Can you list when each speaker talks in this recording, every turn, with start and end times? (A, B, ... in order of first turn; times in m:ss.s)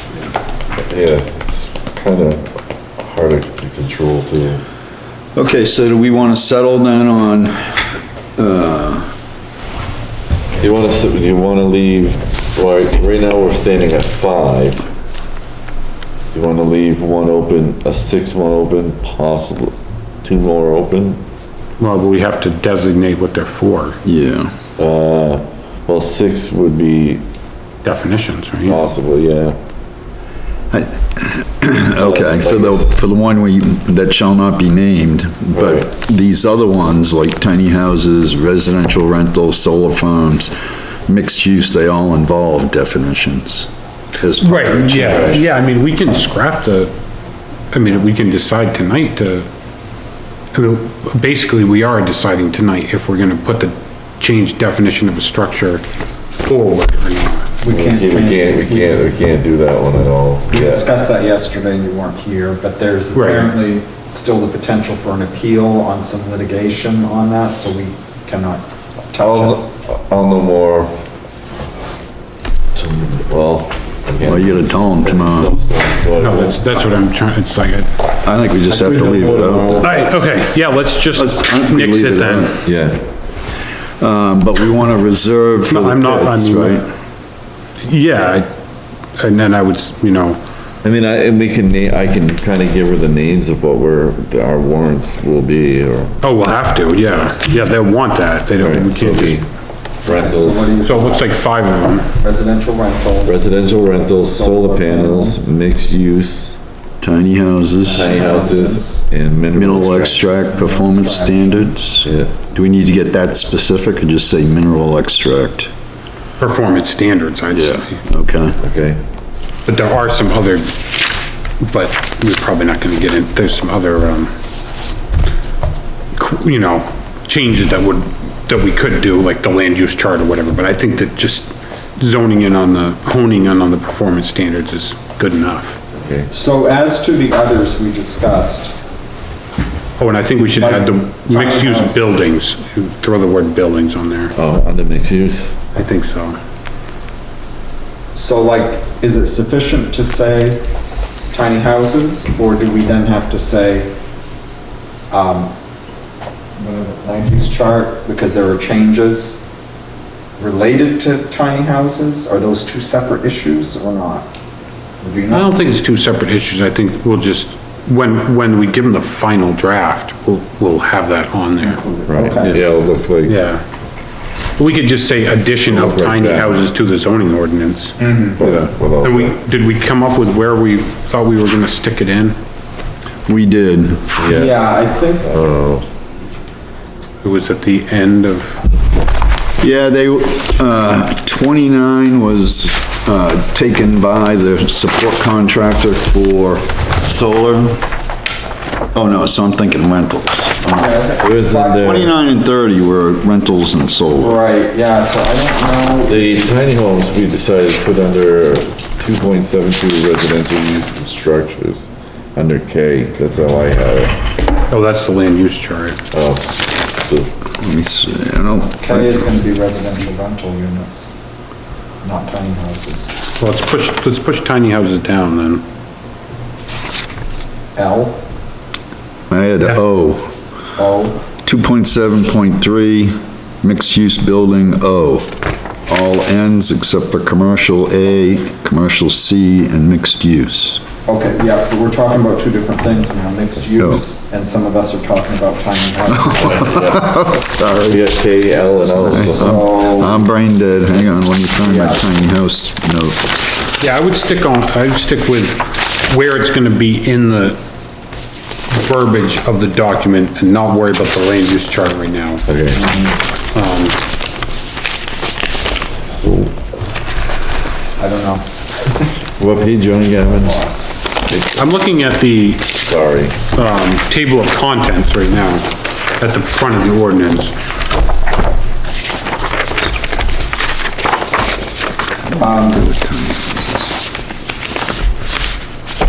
0:00.7-0:02.5 A
0:03.0-0:04.6 A
0:05.4-0:07.8 B
0:08.4-0:09.1 B
0:10.6-0:14.9 A
0:16.3-0:21.2 A
0:21.8-0:24.0 C
0:24.0-0:24.5 B
0:24.8-0:27.2 A
0:27.8-0:28.8 C
0:28.6-0:29.6 A
0:30.7-0:40.6 B
0:32.0-0:32.9 A
0:35.5-0:35.9 A
0:41.1-0:45.4 B
0:44.4-0:46.9 C
0:45.0-0:45.4 A
0:47.7-0:49.5 C
0:50.5-0:55.8 C
0:56.4-0:57.5 C
0:57.6-0:59.0 D
0:57.7-1:00.8 A
1:00.5-1:09.6 D
1:03.1-1:03.5 C
1:09.2-1:10.9 A
1:12.7-1:16.8 A
1:14.2-1:15.5 B
1:16.2-1:17.9 C
1:18.2-1:19.8 B
1:18.7-1:20.1 A
1:19.8-1:22.6 C
1:21.1-1:22.6 B
1:22.6-1:23.0 A
1:24.0-1:26.8 B
1:25.6-1:26.9 C
1:27.8-1:28.5 C
1:29.2-1:30.4 C
1:30.8-1:36.2 A
1:36.2-1:39.4 C
1:38.6-1:39.5 A
1:40.0-1:40.7 A
1:40.0-1:41.3 D
1:40.8-1:42.1 C
1:42.1-1:45.5 D
1:43.2-1:46.6 A
1:47.0-1:48.2 B
1:47.8-1:49.0 D
1:47.9-1:50.2 A
1:49.5-1:55.7 B
1:50.4-1:51.8 D
1:52.0-1:52.3 A
1:56.4-1:58.0 C
1:57.5-1:58.6 B
1:58.6-1:59.0 A
1:59.7-2:00.7 C
2:01.6-2:04.3 C
2:06.1-2:15.8 C
2:15.9-2:16.3 A
2:16.3-2:18.7 D
2:20.0-2:24.3 C
2:20.6-2:22.3 D
2:24.3-2:25.5 A
2:25.8-2:26.4 C
2:28.1-2:30.6 D
2:31.3-2:33.9 D
2:35.1-2:35.5 D
2:36.6-2:39.4 D
2:40.4-2:44.3 D
2:45.0-2:45.7 D
2:45.3-2:51.8 C
2:51.6-2:52.6 D
2:52.1-2:53.4 A
2:53.2-2:53.6 C
2:54.6-2:58.0 C
2:55.7-2:56.6 A
2:58.0-2:58.4 D
2:58.4-2:59.3 A
2:58.4-2:58.7 B
2:59.0-3:02.4 C
3:03.3-3:04.1 B
3:04.2-3:05.8 A
3:04.3-3:05.3 D
3:07.2-3:08.6 C
3:09.6-3:17.8 B
3:18.9-3:20.9 B
3:20.8-3:21.9 D
3:21.2-3:22.1 A
3:21.7-3:24.4 B
3:24.2-3:26.4 D
3:26.1-3:34.2 A
3:34.7-3:36.0 C
3:36.1-3:37.3 A
3:37.6-3:39.3 B
3:38.8-3:41.2 D
3:42.0-3:43.1 D
3:43.4-3:45.6 C
3:47.8-3:48.2 D
3:49.3-3:50.3 B
3:50.8-3:51.2 D
3:51.4-3:55.3 B
3:55.9-4:00.8 B
4:01.1-4:07.0 D
4:03.8-4:04.0 B
4:06.1-4:08.0 B
4:07.8-4:09.6 A
4:09.0-4:10.2 D
4:09.0-4:13.3 B
4:11.6-4:12.0 D
4:13.8-4:17.6 C
4:18.7-4:22.4 C
4:22.5-4:22.8 A
4:22.8-4:23.2 D
4:23.5-4:24.0 C
4:26.2-4:26.5 A
4:28.0-4:29.1 D
4:29.4-4:30.6 A
4:30.2-4:30.9 D
4:31.3-4:31.6 A
4:31.6-4:32.7 C
4:32.8-4:33.4 A
4:33.5-4:37.6 C
4:42.3-4:44.0 B
4:42.4-4:42.8 D